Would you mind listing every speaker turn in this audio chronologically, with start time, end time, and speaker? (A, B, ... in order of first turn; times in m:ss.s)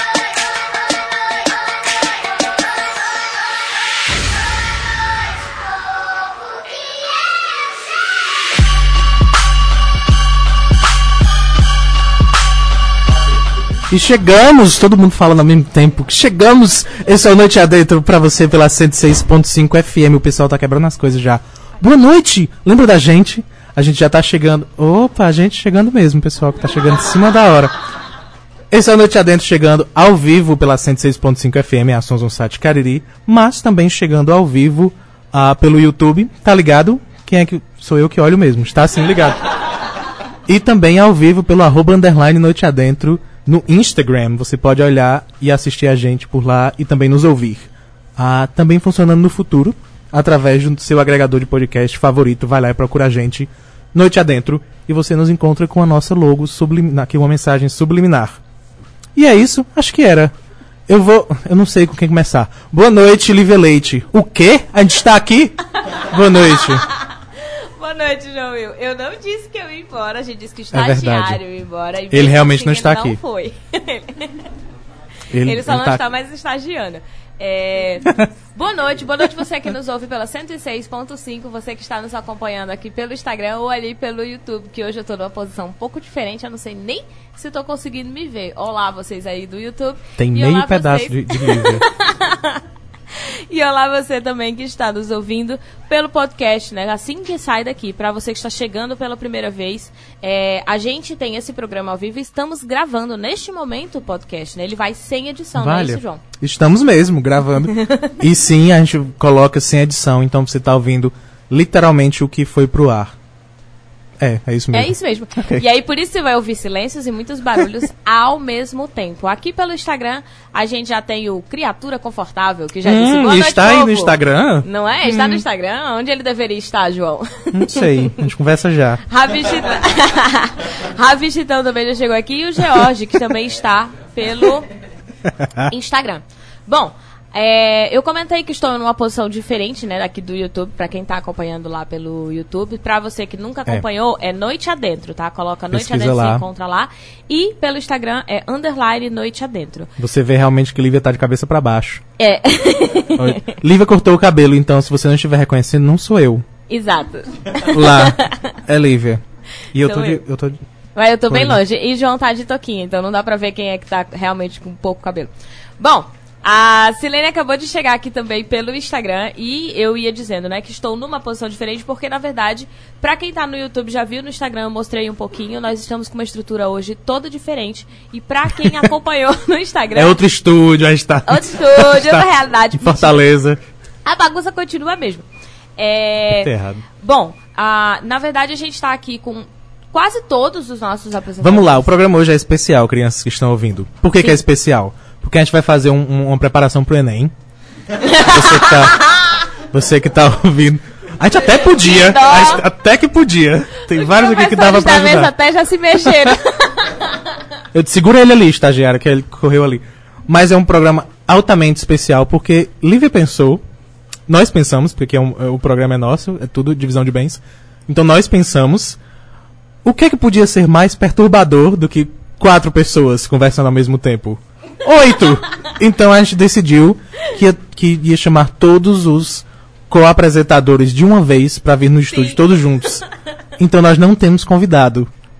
0:13.9-0:27.8 A
0:28.7-0:39.5 A
0:40.5-0:58.4 A
0:59.2-1:00.3 A
1:00.9-1:06.8 A
1:06.5-1:14.4 B
1:10.7-1:11.4 A
1:12.1-1:13.2 A
1:15.3-1:16.0 A
1:15.4-1:32.6 B
1:30.2-1:31.8 A
1:33.2-1:46.2 B
1:45.6-1:53.1 A
1:47.7-1:48.1 B
1:54.2-1:55.6 A
1:54.7-2:08.3 B
2:02.8-2:05.4 A
2:07.5-2:09.0 A
2:09.1-2:14.7 B
2:15.4-2:15.7 A
2:15.7-2:29.9 B
2:25.7-2:26.4 A
2:30.0-2:32.0 A
2:32.2-2:33.5 B
2:33.2-2:36.5 A
2:36.7-2:38.4 B
2:37.7-2:39.2 A
2:39.7-2:40.6 A
2:39.8-2:40.2 B
2:41.0-3:00.2 B
2:41.3-2:41.6 A
3:00.0-3:03.6 A
3:01.3-3:03.2 B
3:04.1-3:05.3 B
3:05.8-3:11.9 B
3:06.3-3:06.8 A
3:11.4-3:17.3 A
3:18.0-3:19.4 B
3:18.3-3:19.1 A
3:19.7-3:25.3 A
3:21.7-3:22.7 B
3:23.9-3:26.9 B
3:26.0-3:26.3 A
3:27.7-3:33.6 A
3:34.3-3:39.0 A
3:39.8-3:53.0 A
3:52.1-3:52.4 B
3:53.6-3:55.1 A